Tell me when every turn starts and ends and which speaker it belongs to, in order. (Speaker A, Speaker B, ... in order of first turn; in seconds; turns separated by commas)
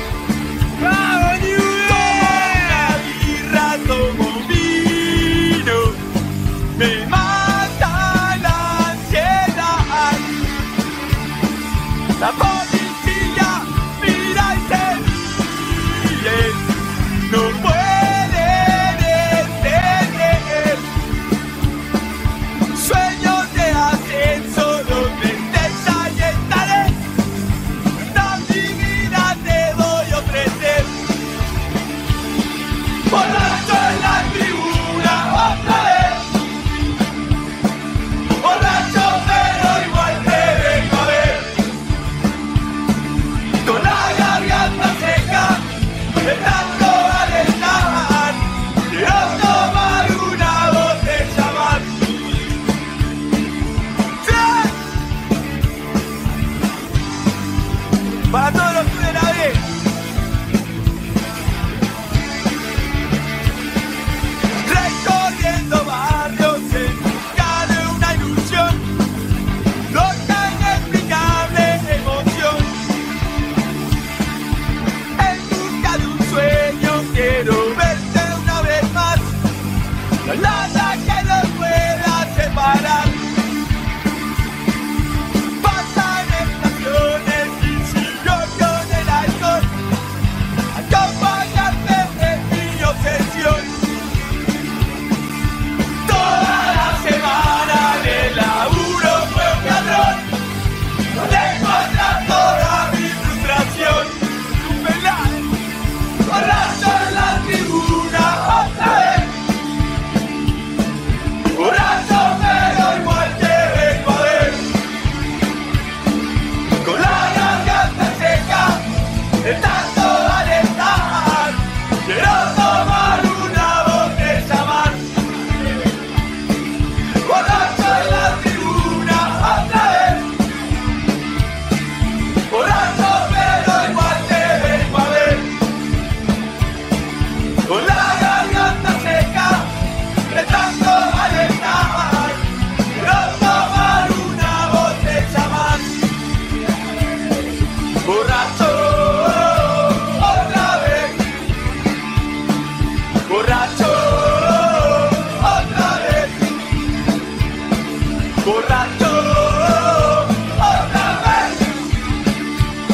Speaker A: 0.8-6.0, Speaker A: 6.8-10.3, Speaker A: 12.2-16.6, Speaker A: 17.2-20.9, Speaker A: 22.7-27.0, Speaker A: 28.0-30.9, Speaker A: 33.1-36.3, Speaker A: 38.4-41.5, Speaker A: 43.6-45.6, Speaker A: 46.2-52.0, Speaker A: 54.2-54.7, Speaker A: 58.3-59.6, Speaker A: 64.6-68.8, Speaker A: 69.9-72.7, Speaker A: 75.2-79.3, Speaker A: 80.2-83.2, Speaker A: 85.6-89.7, Speaker A: 90.7-93.8, Speaker A: 96.0-100.2, Speaker A: 101.1-105.5, Speaker A: 106.2-109.3, Speaker A: 111.5-114.7, Speaker A: 116.8-118.8, Speaker A: 119.4-125.1, Speaker A: 127.2-130.3, Speaker A: 132.5-135.5, Speaker A: 137.7-139.7, Speaker A: 140.3-146.0, Speaker A: 148.0-151.2, Speaker A: 153.2-156.5, Speaker A: 158.4-161.7